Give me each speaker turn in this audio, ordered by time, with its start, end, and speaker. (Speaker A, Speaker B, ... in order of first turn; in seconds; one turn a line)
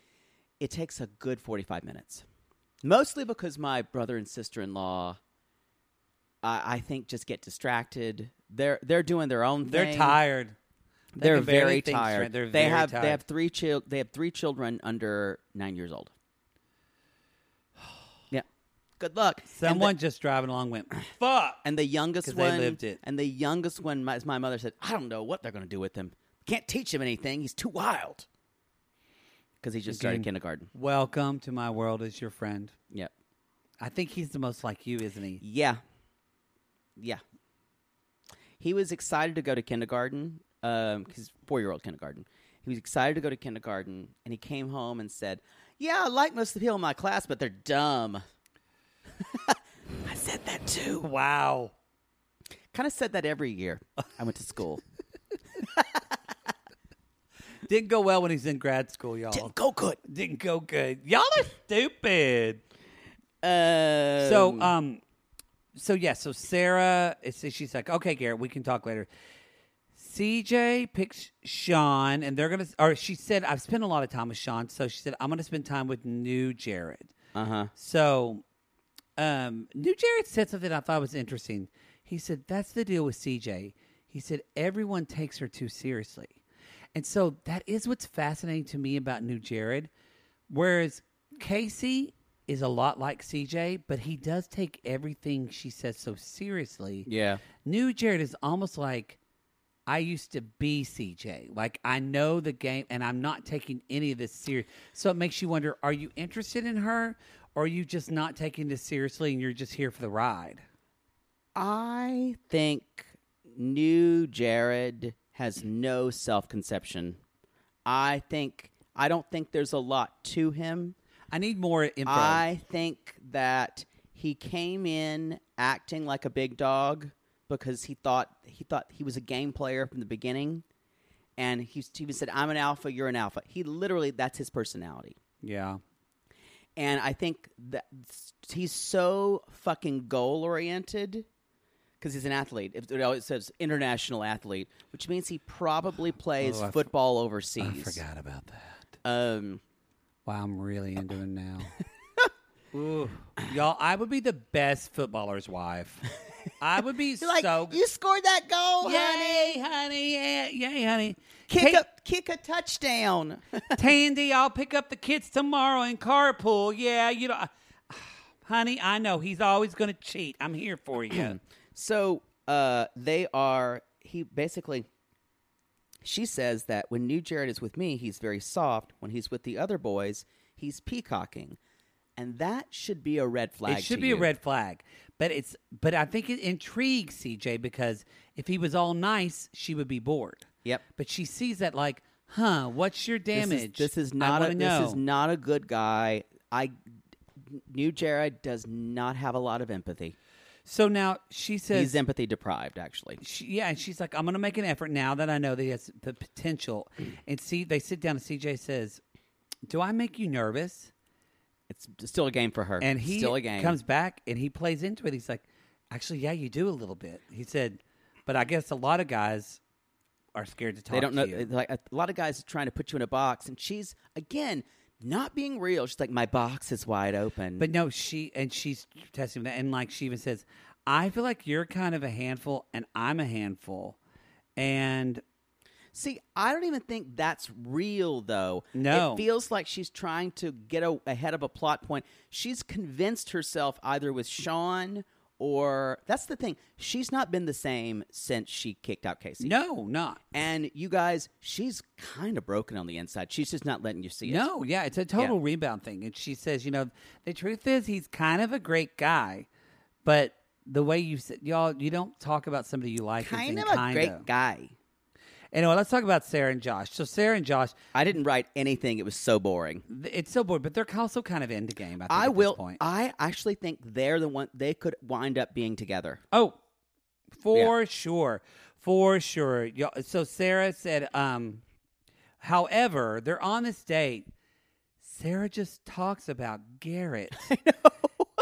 Speaker A: 0.6-2.2
Speaker A: 2.8-5.2
Speaker A: 6.4-10.2
Speaker B: 9.7-10.6
Speaker B: 11.1-13.2
Speaker A: 11.2-16.1
Speaker A: 19.0-19.9
Speaker B: 19.5-21.6
Speaker A: 21.6-28.3
Speaker B: 22.2-23.0
Speaker A: 29.6-30.7
Speaker B: 29.9-32.7
Speaker B: 33.8-35.4
Speaker A: 35.4-35.8
Speaker A: 38.6-48.2
Speaker A: 49.2-51.1
Speaker B: 51.0-51.7
Speaker A: 52.7-54.8
Speaker A: 55.6-56.0
Speaker B: 57.6-59.5
Speaker A: 59.3-60.0
Speaker B: 60.0-62.6
Speaker A: 63.4-64.7
Speaker B: 64.2-65.0
Speaker B: 65.7-69.1
Speaker B: 70.0-77.1
Speaker A: 77.3-77.7
Speaker B: 77.7-78.4
Speaker B: 79.2-86.4
Speaker B: 86.9-89.9
Speaker B: 90.5-97.1
Speaker A: 97.1-97.4
Speaker B: 97.6-99.2
Speaker B: 99.9-110.6
Speaker A: 111.5-117.2
Speaker A: 117.8-121.0
Speaker B: 121.3-122.5
Speaker A: 122.0-130.6
Speaker A: 131.4-135.2
Speaker B: 135.4-135.8
Speaker A: 136.8-141.3
Speaker A: 142.0-148.0
Speaker B: 146.4-146.9
Speaker B: 147.6-148.8
Speaker A: 149.0-149.6
Speaker B: 150.2-151.8
Speaker B: 152.7-156.1
Speaker B: 156.6-157.8
Speaker A: 157.2-159.6
Speaker B: 158.8-161.8
Speaker A: 161.5-163.8
Speaker B: 163.7-171.4
Speaker A: 171.1-174.9
Speaker A: 176.0-181.6
Speaker A: 182.2-184.3
Speaker B: 183.7-195.0
Speaker A: 193.3-196.7
Speaker A: 197.4-200.2
Speaker B: 200.7-202.0
Speaker A: 201.7-203.2
Speaker B: 203.2-209.0
Speaker B: 209.7-210.9
Speaker A: 211.7-213.8
Speaker B: 212.8-219.6
Speaker B: 220.3-221.5
Speaker A: 220.9-227.7
Speaker B: 227.6-234.0
Speaker B: 234.6-235.2
Speaker A: 235.9-249.5
Speaker B: 238.7-239.2
Speaker B: 249.4-250.2
Speaker A: 250.3-254.5
Speaker B: 254.2-259.5
Speaker B: 260.0-264.2
Speaker A: 263.2-264.7
Speaker B: 265.5-267.7
Speaker A: 267.9-269.8
Speaker B: 269.9-272.8
Speaker A: 272.1-276.2
Speaker B: 276.3-276.6
Speaker B: 277.4-281.6
Speaker B: 282.4-284.3
Speaker B: 285.0-287.5
Speaker A: 287.4-288.2